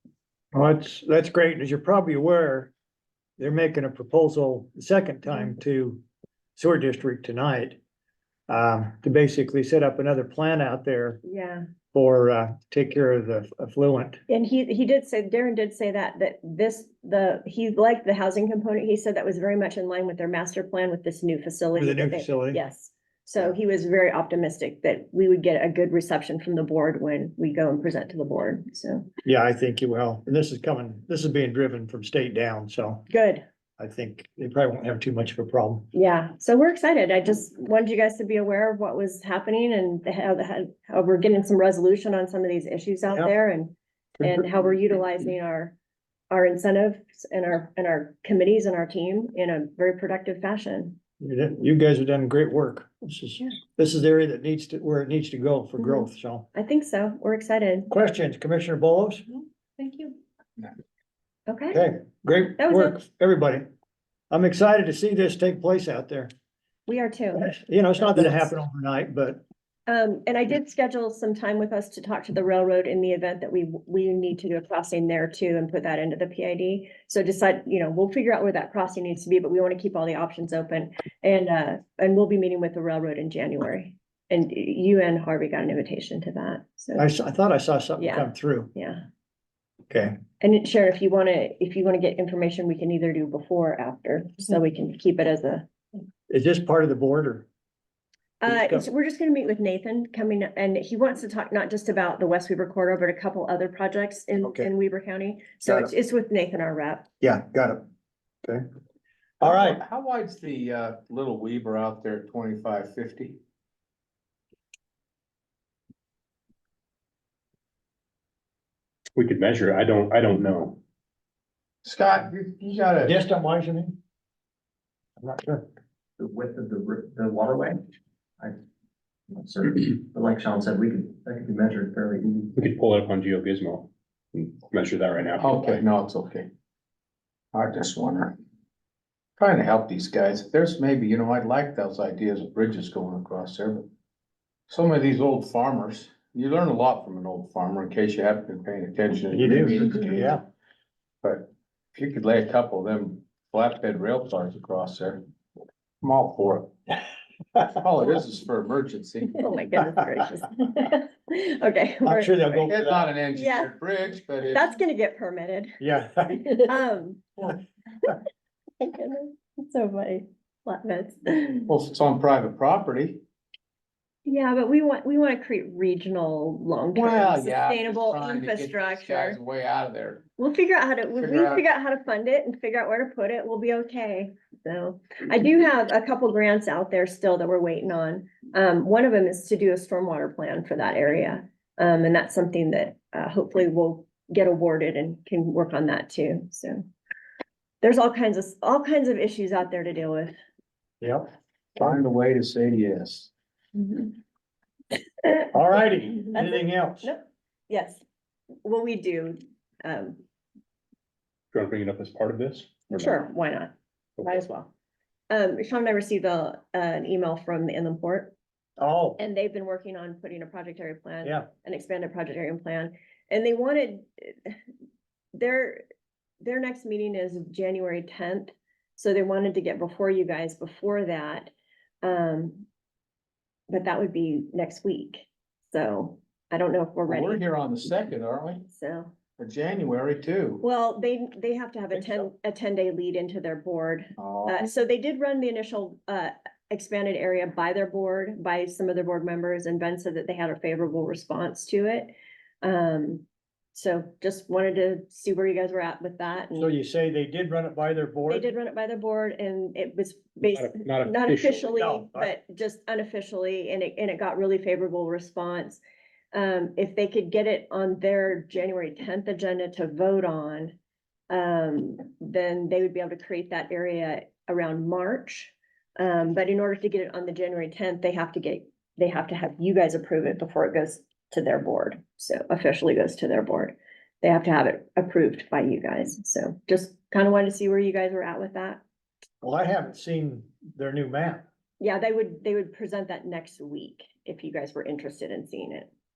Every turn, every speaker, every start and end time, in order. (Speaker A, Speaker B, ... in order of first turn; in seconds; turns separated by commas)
Speaker A: 0.5-2.7, Speaker A: 3.4-6.0, Speaker A: 6.6-7.8, Speaker A: 8.5-11.2, Speaker B: 11.2-11.7, Speaker A: 11.9-14.2, Speaker B: 14.3-29.1, Speaker A: 21.8-22.6, Speaker A: 29.2-33.1, Speaker B: 33.1-33.4, Speaker A: 33.8-35.9, Speaker B: 35.9-45.8, Speaker A: 43.1-43.3, Speaker A: 44.2-44.5, Speaker B: 46.3-51.0, Speaker A: 51.2-56.5, Speaker B: 55.8-57.9, Speaker A: 57.9-59.2, Speaker B: 59.8-60.2, Speaker B: 61.5-61.8, Speaker A: 61.7-63.7, Speaker B: 62.6-63.0, Speaker A: 64.3-66.3, Speaker B: 66.9-68.5, Speaker A: 67.4-69.4, Speaker B: 69.9-87.0, Speaker A: 87.0-88.7, Speaker B: 88.0-89.0, Speaker A: 89.9-90.2, Speaker B: 90.4-95.7, Speaker A: 96.3-97.5, Speaker B: 98.4-107.1, Speaker A: 98.5-98.9, Speaker A: 104.4-104.7, Speaker A: 107.2-107.8, Speaker A: 109.4-109.8, Speaker C: 109.4-113.4, Speaker D: 119.2-120.8, Speaker C: 121.8-123.2, Speaker A: 123.0-124.0, Speaker A: 125.2-125.6, Speaker E: 126.2-127.8, Speaker E: 129.3-132.5, Speaker D: 132.5-135.8, Speaker C: 135.4-136.5, Speaker C: 137.5-138.3, Speaker C: 139.4-143.9, Speaker C: 144.7-150.4, Speaker A: 149.3-150.4, Speaker C: 151.2-155.2, Speaker C: 156.0-156.7, Speaker C: 157.8-159.5, Speaker B: 159.3-162.4, Speaker A: 162.0-163.1, Speaker C: 162.5-164.7, Speaker B: 163.3-163.7, Speaker B: 164.5-165.8, Speaker A: 165.8-166.7, Speaker B: 166.3-167.3, Speaker B: 168.8-171.7, Speaker C: 171.7-173.2, Speaker B: 174.2-179.4, Speaker C: 176.9-180.2, Speaker B: 180.4-196.8, Speaker C: 181.2-181.6, Speaker B: 197.8-200.3, Speaker A: 201.0-201.3, Speaker C: 201.8-203.3, Speaker B: 203.8-204.1, Speaker B: 205.2-205.5, Speaker A: 205.5-207.1, Speaker B: 206.2-208.0, Speaker B: 208.6-210.2, Speaker D: 211.5-213.2, Speaker B: 212.9-214.7, Speaker B: 215.3-218.3, Speaker A: 218.8-219.2, Speaker B: 219.2-224.6, Speaker A: 221.2-221.5, Speaker B: 225.3-225.8, Speaker B: 226.4-231.5, Speaker B: 232.0-232.7, Speaker B: 233.7-237.4, Speaker C: 237.1-238.6, Speaker B: 238.7-239.1, Speaker C: 239.4-240.6, Speaker B: 240.6-256.7, Speaker A: 242.0-242.2, Speaker C: 244.2-244.6, Speaker A: 256.6-258.5, Speaker B: 258.3-265.8, Speaker D: 260.4-261.7, Speaker A: 261.8-262.3, Speaker B: 266.3-270.7, Speaker B: 271.3-288.8, Speaker A: 289.4-291.4, Speaker B: 291.8-295.9